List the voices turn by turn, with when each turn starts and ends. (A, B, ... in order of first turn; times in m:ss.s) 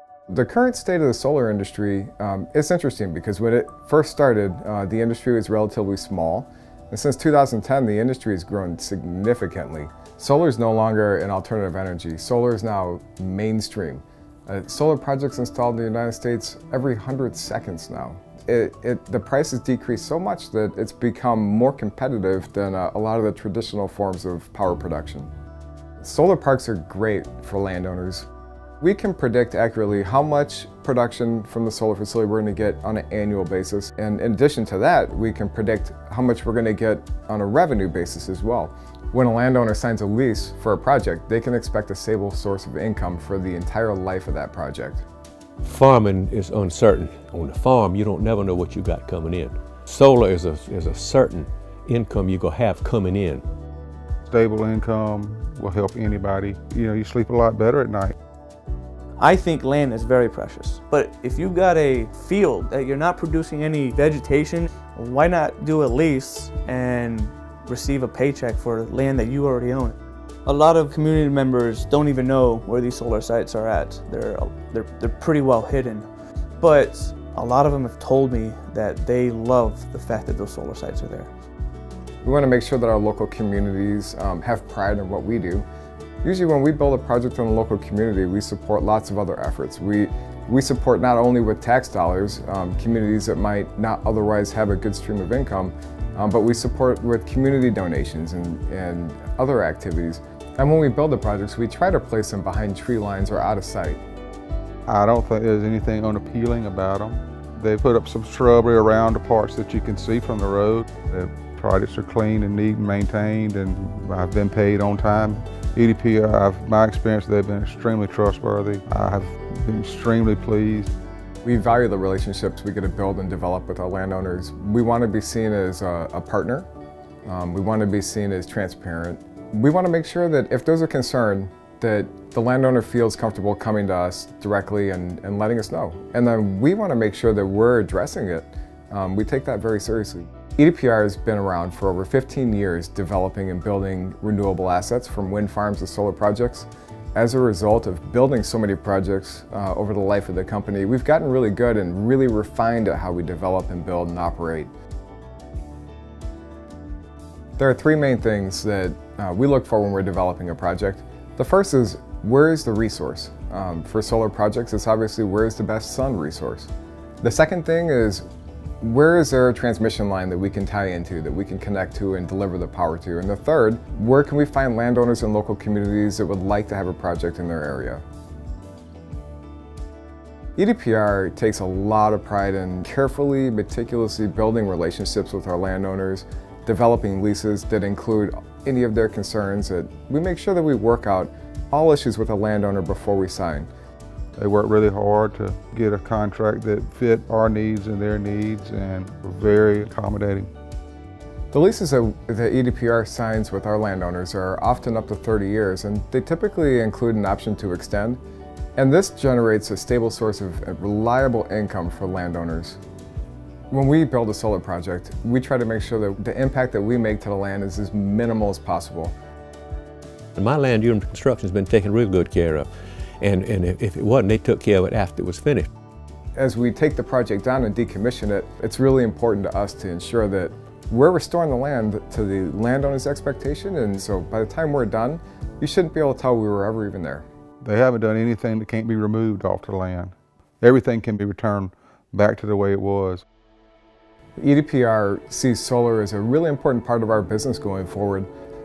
0:00.3-0:25.3 A
0:26.0-0:28.3 A
0:28.8-0:45.0 A
0:45.6-0:53.4 B
0:54.3-0:58.2 C
0:59.2-1:16.1 D
1:16.6-1:21.3 D
1:22.2-1:25.7 A
1:26.2-1:44.0 A
1:44.9-2:00.9 C
2:01.4-2:06.7 A
2:07.2-2:34.7 A
2:37.6-2:46.7 A
2:47.2-2:48.2 A
2:48.8-2:58.0 A
3:00.6-3:13.7 A
3:14.4-3:20.5 C
3:21.5-3:28.2 A
3:28.8-3:32.8 A
3:33.7-3:39.1 A
3:40.4-3:42.7 B
3:43.2-3:45.7 B
3:46.4-3:57.2 A
3:57.6-4:03.2 C
4:04.4-4:08.3 A